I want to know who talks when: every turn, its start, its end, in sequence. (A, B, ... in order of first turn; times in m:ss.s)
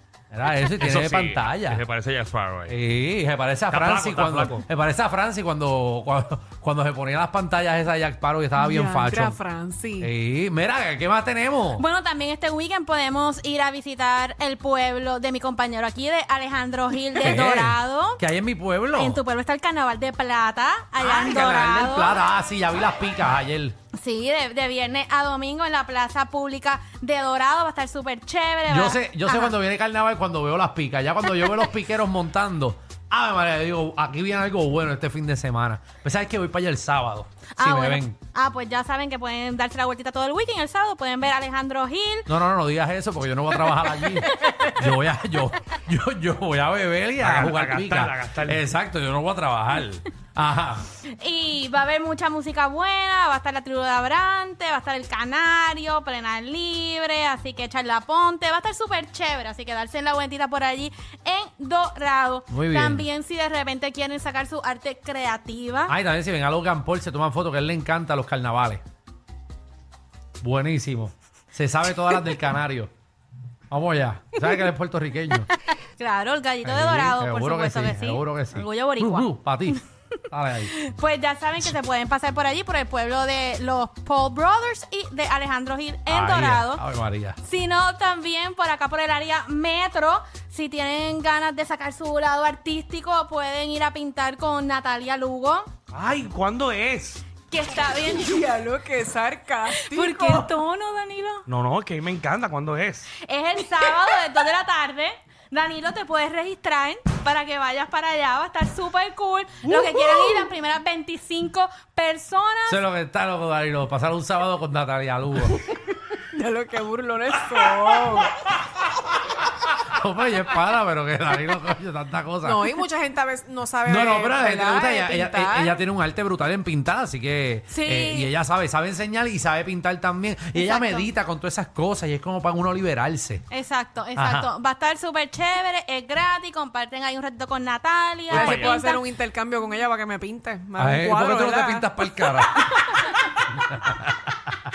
0:00.3-0:01.8 A
0:00.7-0:02.7 B
0:02.7-0:09.4 A
0:03.7-0:04.6 B
0:08.6-0:10.1 C
0:10.0-0:11.8 A
0:11.8-0:18.2 D
0:17.2-0:19.2 A
0:19.0-0:22.2 D
0:21.0-0:23.7 A
0:23.9-0:29.5 D
0:28.7-0:38.2 A
0:37.6-0:42.3 D
0:42.3-0:50.8 A
0:47.2-0:48.6 B
0:51.0-1:05.9 D
1:02.5-1:03.1 A
1:05.9-1:08.8 A
1:10.4-1:12.9 A
1:13.7-1:15.5 A
1:15.8-1:19.8 D
1:16.6-1:20.7 A
1:20.6-1:26.8 D
1:26.1-1:27.4 A
1:27.4-1:35.7 D
1:35.9-1:37.2 B
1:37.5-1:38.4 D
1:38.2-1:40.5 C
1:39.7-1:41.4 D
1:41.5-1:43.1 B
1:43.2-1:52.8 D
1:52.7-1:55.6 A
1:56.3-1:58.3 C
1:59.6-2:02.7 A
2:02.4-2:05.7 C
2:03.9-2:13.4 A
2:07.7-2:08.3 D
2:10.5-2:11.1 D
2:13.5-2:19.0 D
2:14.2-2:14.5 A
2:18.3-2:18.8 B
2:18.3-2:21.9 C
2:20.8-2:24.1 A